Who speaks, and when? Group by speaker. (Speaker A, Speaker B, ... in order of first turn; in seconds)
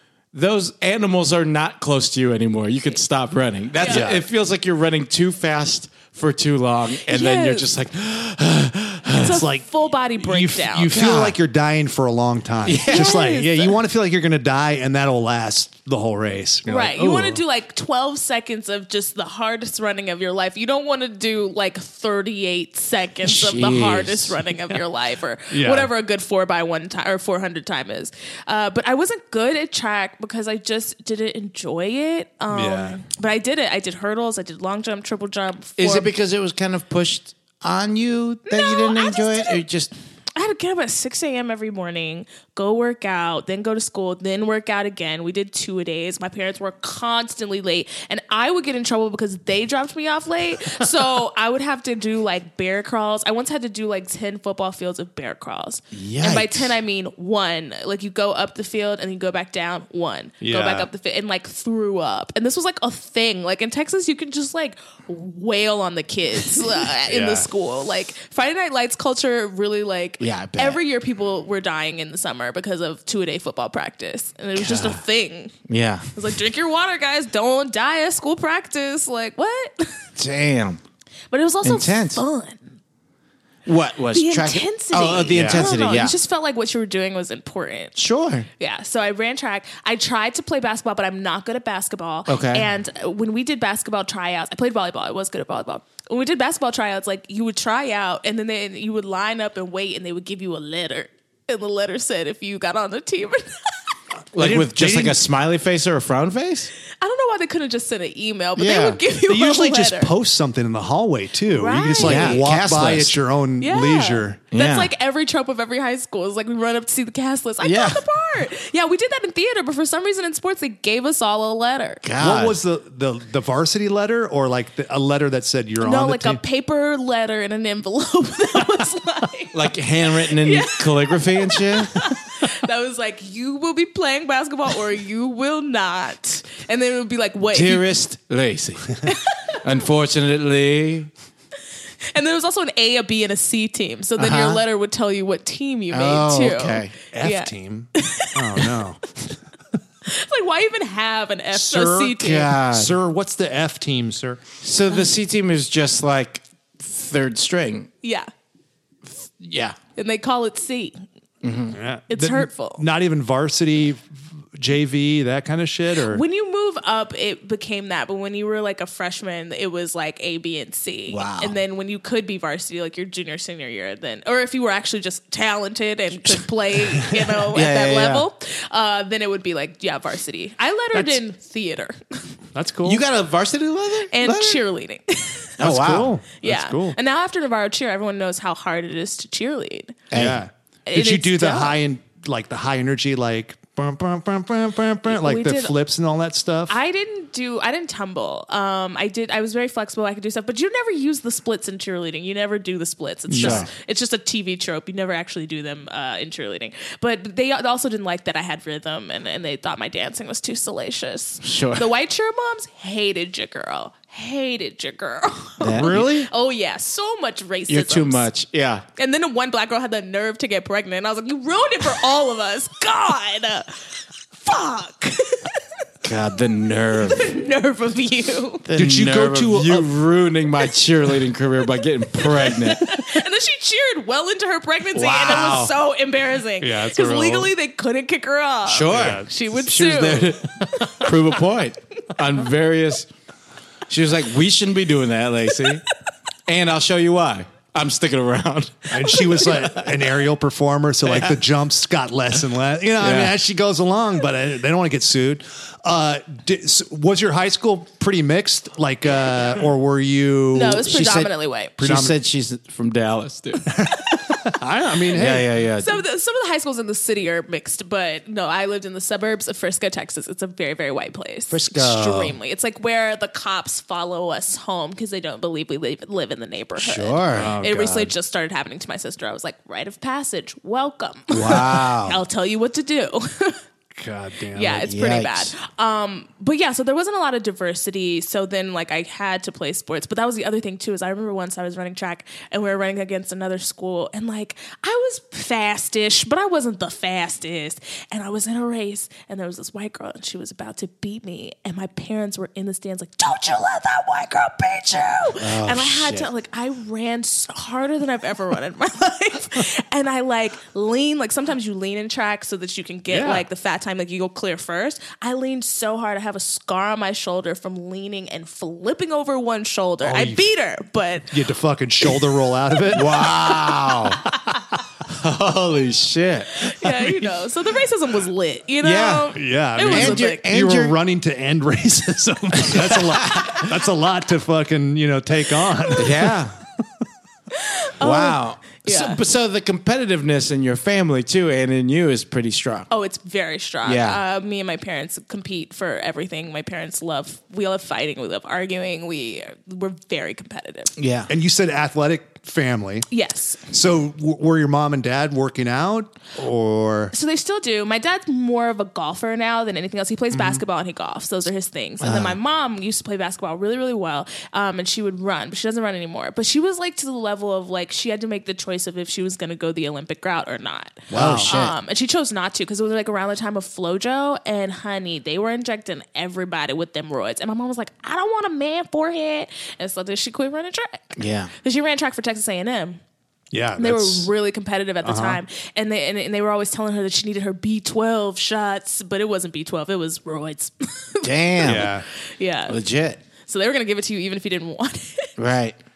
Speaker A: 0.3-9.4, 10.9-11.4, 12.7-13.2, 23.2-24.4, 35.8-39.9, 55.9-56.7, 70.2-70.8, 74.5-75.0, 75.7-76.1, 80.2-80.8, 81.6-82.2, 83.7-86.2, 88.0-88.5, 92.3-92.7, 104.3-106.7, 108.6-109.0, 112.0-113.2, 114.5-114.9, 117.6-118.0, 122.0-122.6, 129.5-132.1, 137.5-139.0, 139.6-141.1, 144.2-144.6, 145.9-146.9, 152.2-153.0, 154.6-157.9, 159.1-159.8, 161.4-161.8, 171.1-171.6, 177.5-178.3, 182.8-184.6, 185.6-186.2, 190.1-190.4, 203.4-203.7, 211.4-211.9, 215.6-216.2, 217.7-218.8, 226.0-227.4, 228.7-233.0, 234.9-235.7, 238.7-243.1, 243.9-245.8, 246.5-249.7, 253.0-253.3, 260.9-263.7, 265.1-266.0, 271.5-272.3, 276.8-277.6, 281.3-282.2, 284.9-285.5, 305.4-306.3, 322.9-324.2, 325.1-326.6, 328.8-329.4, 329.9-331.0, 332.8-333.6, 336.0-336.6, 338.0-342.9, 343.8-344.2, 351.0-351.3, 362.0-362.4, 371.1-371.8, 381.2-381.5, 391.2-391.9, 392.7-393.2, 395.4-395.8
Speaker B: 3.8-4.1, 7.0-7.7, 9.2-10.9, 12.8-13.7, 16.7-36.1, 38.5-39.6, 40.4-75.6, 76.2-80.1, 81.3-82.6, 84.1-88.0, 88.6-103.9, 106.9-110.1, 111.5-112.4, 113.6-122.0, 125.8-137.9, 139.0-139.5, 142.1-148.8, 150.1-152.6, 158.0-158.3, 160.0-161.1, 162.1-162.8, 166.0-182.3, 184.1-185.5, 186.4-190.0, 190.9-191.8, 195.1-195.8, 196.7-218.3, 219.0-225.6, 227.1-228.7, 232.2-241.1, 249.1-249.4, 260.5-261.7, 265.8-283.6, 284.5-321.4, 323.1-323.8, 326.6-330.4, 335.8-336.1, 337.5-339.2, 342.9-350.9, 353.1-353.7, 357.1-383.0, 383.8-392.8, 393.4-395.3
Speaker C: 3.9-4.2, 9.2-9.7, 10.2-17.4, 25.5-25.9, 32.5-33.0, 60.4-60.9, 67.1-67.5, 85.3-85.7, 104.3-105.2, 109.3-114.4, 122.2-126.4, 147.1-149.4, 151.5-154.4, 161.7-166.2, 177.0-177.4, 180.9-181.2, 182.6-183.0, 185.6-187.0, 190.1-196.8, 203.3-203.7, 215.8-216.3, 228.8-229.9, 236.6-237.5, 238.9-239.3, 240.6-241.1, 248.9-261.0, 261.8-262.2, 263.7-265.5, 277.4-278.1, 283.9-284.9, 313.1-313.4, 320.0-320.5, 321.3-323.2, 326.9-327.2, 329.4-336.8, 351.3-353.1, 353.7-357.1, 360.3-360.6, 371.1-371.5, 383.5-384.3, 385.0-385.4, 391.6-392.1